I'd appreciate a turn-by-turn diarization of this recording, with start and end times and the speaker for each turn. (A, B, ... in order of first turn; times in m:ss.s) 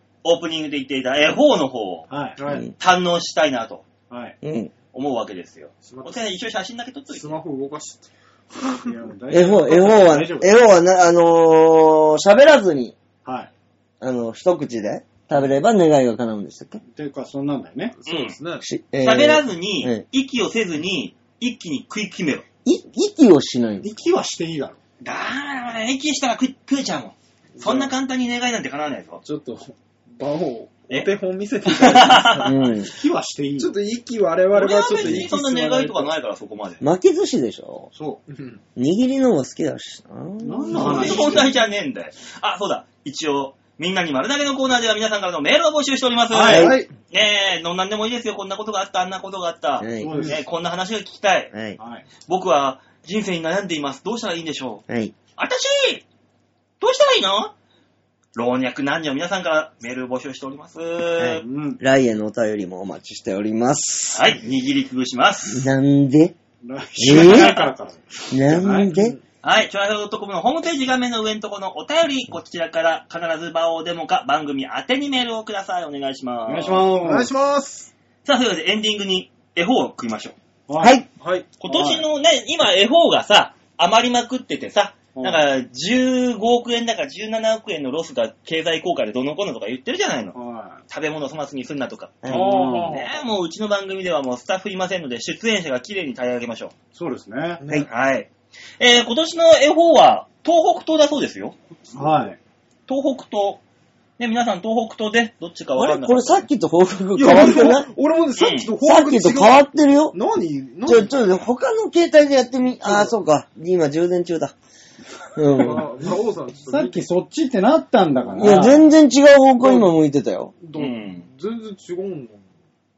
0:00.2-0:02.1 A
0:02.1-0:02.4 B
0:02.4-0:02.7 C
0:02.8-0:03.9 A
0:04.1-0:04.4 B
0:04.4-0:04.7 D
0:04.9-0:07.4 A
0:05.8-0:06.3 C
0:07.1-0:09.0 C
0:08.8-0:10.6 B
0:09.3-0:13.0 D
0:13.2-0:13.5 B
0:14.0-0:16.8 D
0:16.8-0:17.9 B
0:17.9-0:18.6 C
0:18.1-0:18.4 A
0:18.6-0:20.0 D
0:19.0-0:22.4 A
0:22.6-0:23.9 D
0:23.8-0:24.8 B
0:25.0-0:29.2 A
0:27.6-0:27.9 C
0:29.2-0:32.7 C
0:31.6-0:32.6 A
0:32.4-0:32.9 D
0:32.8-0:33.7 B
0:33.6-0:36.1 C
0:34.5-0:36.8 A
0:35.0-0:35.2 D
0:36.8-0:37.9 D
0:37.9-0:38.2 B
0:38.3-0:38.6 C
0:38.8-0:41.4 D
0:40.4-0:41.5 B
0:40.7-0:51.5 A
0:46.3-0:46.9 B
0:46.4-0:46.8 D
0:49.8-0:50.3 D
0:50.0-0:50.4 B
0:51.5-0:51.8 D
0:51.8-0:52.1 B
0:52.3-0:54.8 A
0:54.9-0:55.2 D
0:55.4-0:56.0 A
0:56.8-0:57.5 A
0:58.4-1:01.4 A
1:01.2-1:04.3 D
1:01.3-1:01.8 B
1:04.1-1:05.7 A
1:05.5-1:06.4 D
1:06.6-1:08.9 B
1:07.0-1:07.5 D
1:07.0-1:07.7 A
1:08.3-1:09.2 D
1:09.4-1:16.9 A
1:16.5-1:17.3 B
1:17.0-1:17.9 C
1:18.2-1:20.4 A
1:20.7-1:21.0 B
1:20.8-1:21.1 D
1:21.2-1:21.5 C
1:21.6-1:30.4 A
1:21.7-1:22.0 B
1:25.1-1:25.4 B
1:30.4-1:30.8 B
1:30.9-1:36.7 A
1:32.2-1:32.5 D
1:32.3-1:32.9 B
1:32.3-1:33.2 C
1:36.9-1:37.6 B
1:37.6-1:37.9 C
1:37.9-1:41.6 A
1:41.8-1:42.3 C
1:41.9-1:42.4 B
1:42.9-1:43.6 A
1:44.2-1:46.5 A
1:45.8-1:47.9 D
1:47.1-1:51.2 C
1:48.4-1:48.7 A
1:48.8-1:50.2 D
1:50.9-1:54.5 D
1:52.9-1:53.1 C
1:55.4-1:55.9 D
1:55.6-1:57.0 C
1:56.7-1:58.8 B
1:58.3-1:58.8 C
1:58.3-2:00.5 D
1:59.6-1:59.9 C
2:00.6-2:02.4 C
2:00.7-2:01.3 A